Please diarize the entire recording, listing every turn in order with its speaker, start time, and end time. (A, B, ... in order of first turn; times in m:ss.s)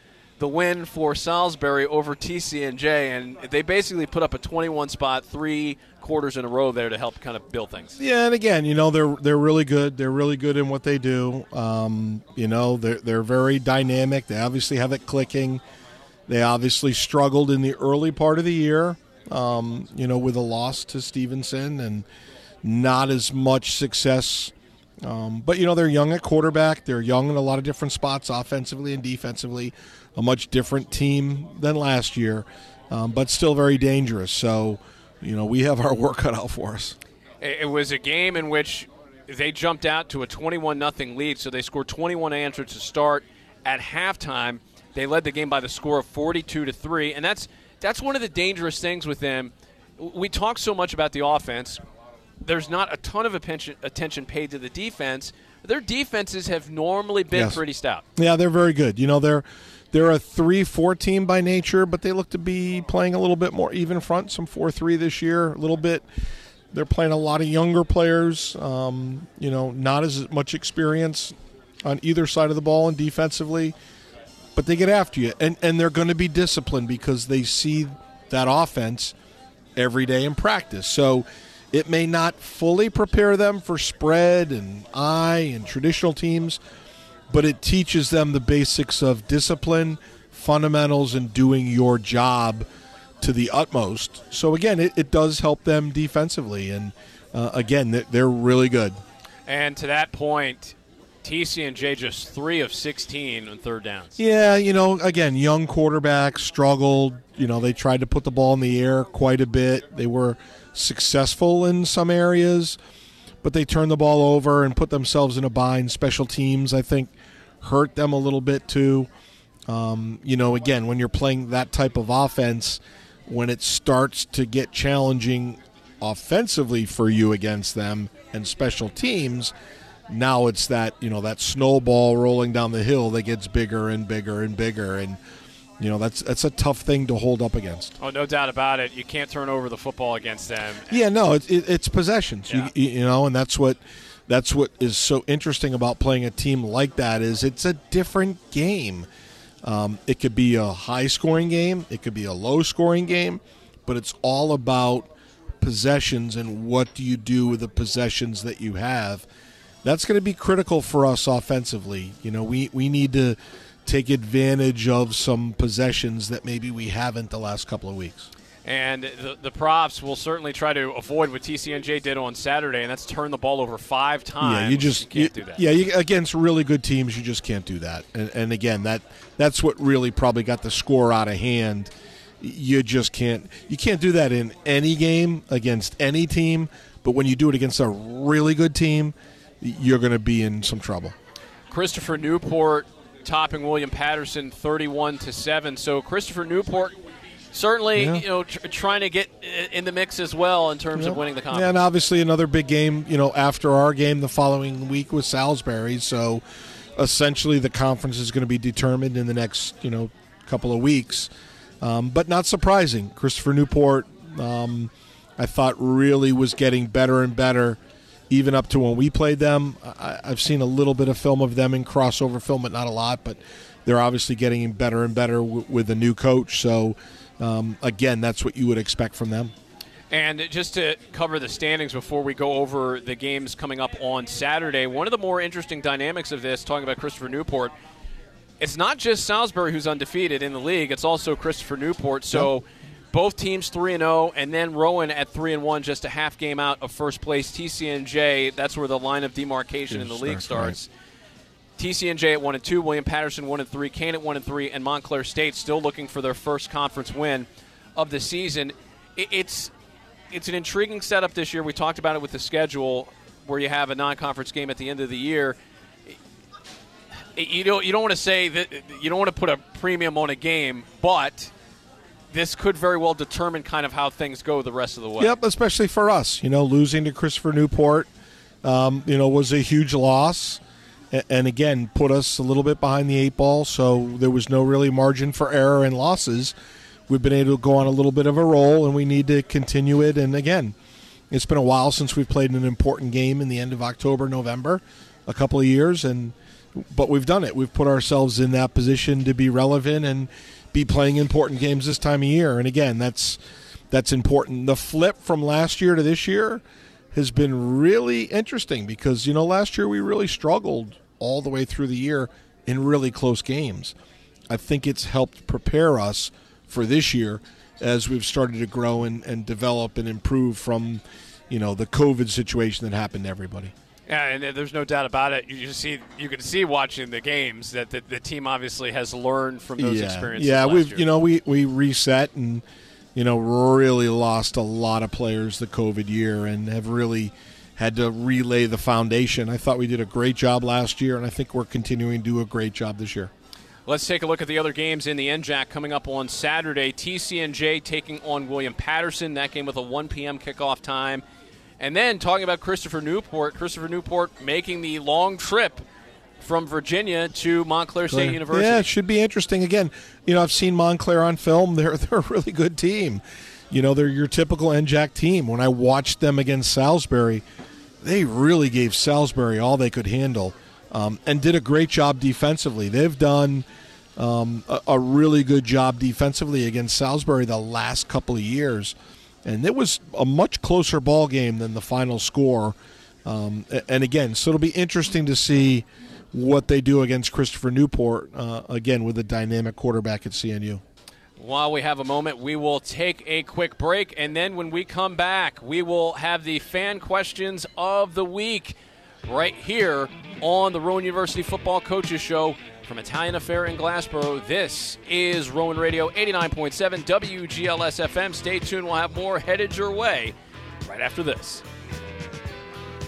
0:00.4-0:08.0 A
0:08.0-0:15.6 B
0:16.3-0:22.0 B
0:22.6-0:37.0 B
0:37.4-0:51.8 A
0:52.4-0:58.0 A
0:57.3-0:57.6 B
0:58.2-1:06.0 B
1:06.7-1:13.7 B
1:14.6-1:19.1 B
1:19.8-1:26.6 B
1:27.3-1:32.6 B
1:33.2-1:39.0 B
1:39.5-1:44.2 A
1:44.2-1:52.8 B
1:53.4-1:59.1 B
1:59.7-2:09.5 B
2:10.1-2:15.2 B
2:15.8-2:17.9 B
2:18.0-2:21.0 A
2:20.9-2:29.1 B
2:29.6-2:35.1 B
2:35.6-2:39.2 B
2:39.8-2:48.3 B
2:48.6-2:55.6 A
2:54.4-3:11.1 B
3:11.7-3:17.0 A
3:17.5-3:21.8 A
3:17.9-3:18.2 B
3:20.9-3:26.4 B
3:27.0-3:31.3 B
3:31.8-3:37.8 B
3:38.3-3:49.5 B
3:50.1-3:57.7 A
3:58.6-4:10.9 A
4:09.9-4:10.8 B
4:11.8-4:19.7 A
4:20.3-4:25.6 A
4:27.4-4:31.5 A
4:32.3-4:35.3 A
4:35.2-4:38.1 B
4:38.6-4:40.6 B
4:41.1-4:46.5 B
4:47.1-4:50.7 B
4:51.3-5:03.4 B
5:03.9-5:06.6 B
5:07.1-5:13.9 B
5:14.5-5:23.7 B
5:24.1-5:31.1 A
5:29.8-5:43.3 B
5:43.9-5:51.2 A
5:51.8-5:55.8 A
5:56.4-5:58.9 A
5:58.1-6:07.4 B
6:08.0-6:13.6 B
6:14.2-6:30.8 B
6:31.4-6:50.3 A
6:50.8-6:51.6 A